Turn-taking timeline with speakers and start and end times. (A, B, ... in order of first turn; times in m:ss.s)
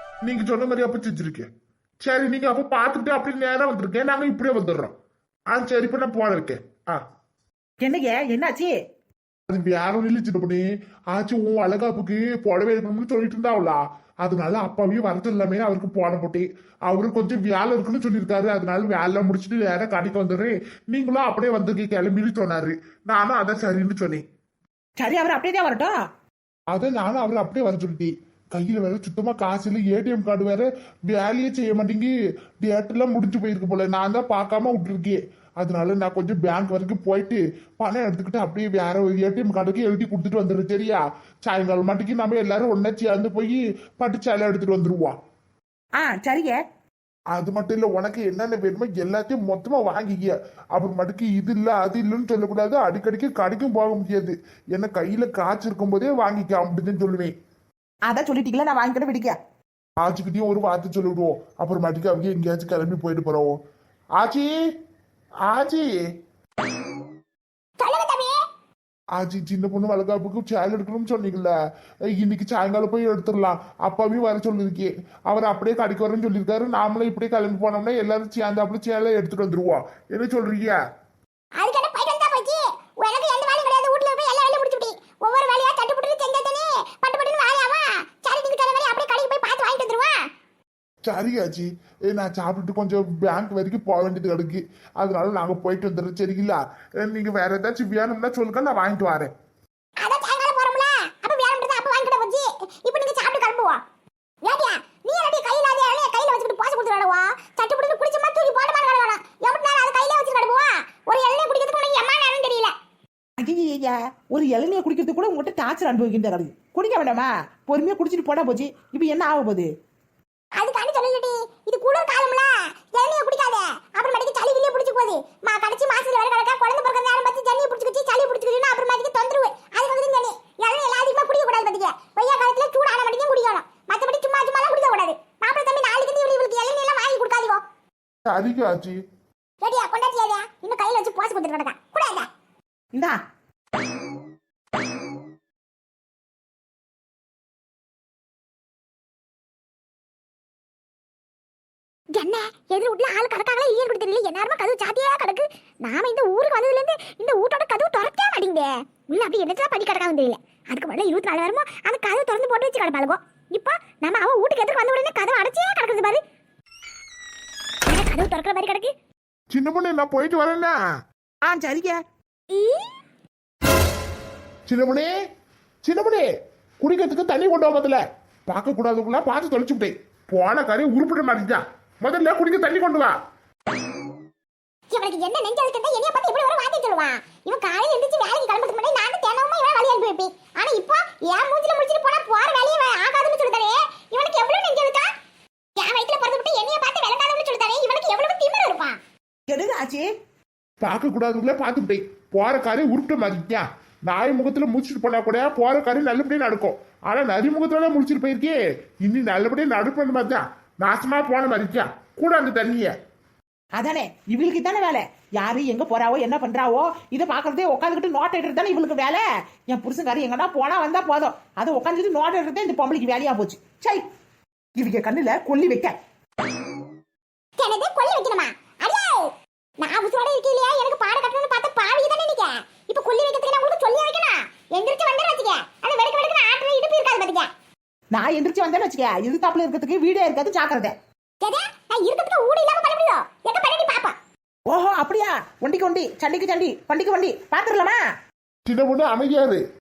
0:00.2-0:01.5 A
0:02.0-0:04.9 A
0:05.5-0:07.0 A
0:07.8-0:08.8 B
0:09.5-0:24.2 A
0:25.0-0:26.0 B
0:26.7-0:45.2 A
0:46.0-0:46.6 B
0:47.3-0:57.3 A
0:58.0-0:59.4 B
1:00.0-1:03.6 A
1:04.2-1:04.5 A
1:05.5-1:05.9 A
1:07.8-1:08.4 C
1:09.1-1:11.5 A
1:12.1-1:20.8 A
1:21.6-1:30.2 C
1:31.0-1:39.3 A
1:40.0-1:43.8 C
1:44.4-1:52.7 C
1:53.4-1:59.7 B
2:00.6-2:17.6 C
2:18.3-2:19.0 A
2:19.6-2:22.3 C
2:32.1-2:46.2 C
2:47.9-2:48.9 C
2:49.5-2:50.7 A
2:51.4-2:52.0 B
2:52.5-2:52.9 C
2:54.6-2:55.1 A
2:55.8-2:56.3 A
2:56.8-3:03.2 A
3:04.9-3:15.1 C
3:15.8-3:19.0 C
3:19.5-3:20.1 B
3:20.8-3:32.9 A
3:33.8-3:44.1 B
3:44.8-3:46.0 B
3:47.6-3:57.5 C
3:58.1-4:00.9 B
4:01.4-4:04.2 C
4:04.7-4:08.0 B
4:08.6-4:09.6 A